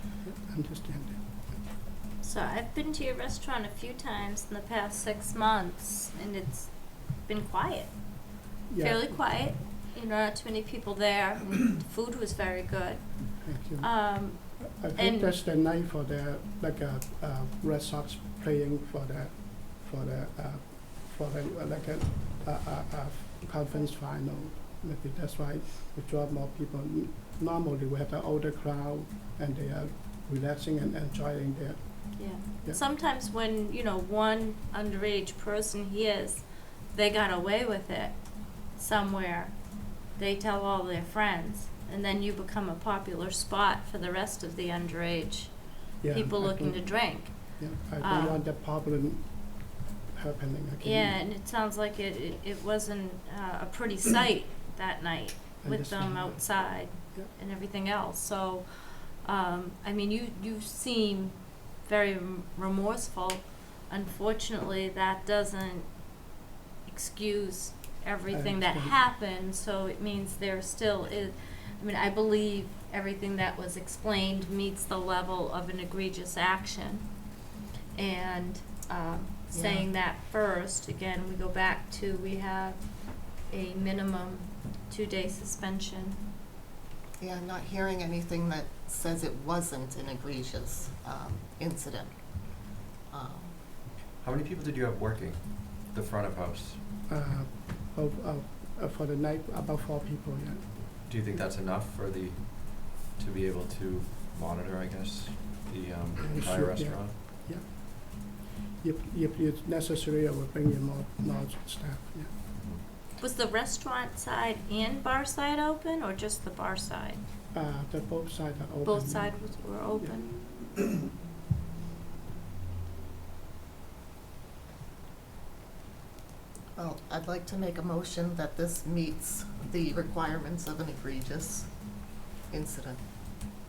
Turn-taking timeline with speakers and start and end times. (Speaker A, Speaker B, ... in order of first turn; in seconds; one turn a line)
Speaker A: 0.2-1.2
Speaker B: 2.2-8.0
Speaker A: 8.7-9.1
Speaker B: 8.8-15.3
Speaker A: 13.4-32.8
Speaker B: 32.1-45.5
Speaker A: 46.0-51.2
Speaker B: 46.1-48.4
Speaker B: 50.8-65.9
Speaker A: 55.6-57.3
Speaker B: 66.9-77.1
Speaker A: 68.3-69.0
Speaker B: 77.9-86.2
Speaker C: 79.5-79.9
Speaker C: 87.2-93.5
Speaker D: 94.0-96.8
Speaker A: 97.1-101.1
Speaker D: 101.0-107.1
Speaker A: 106.2-112.3
Speaker B: 113.2-117.2
Speaker A: 117.5-120.1
Speaker B: 118.8-120.3
Speaker C: 126.8-131.7
Speaker C: 132.5-133.0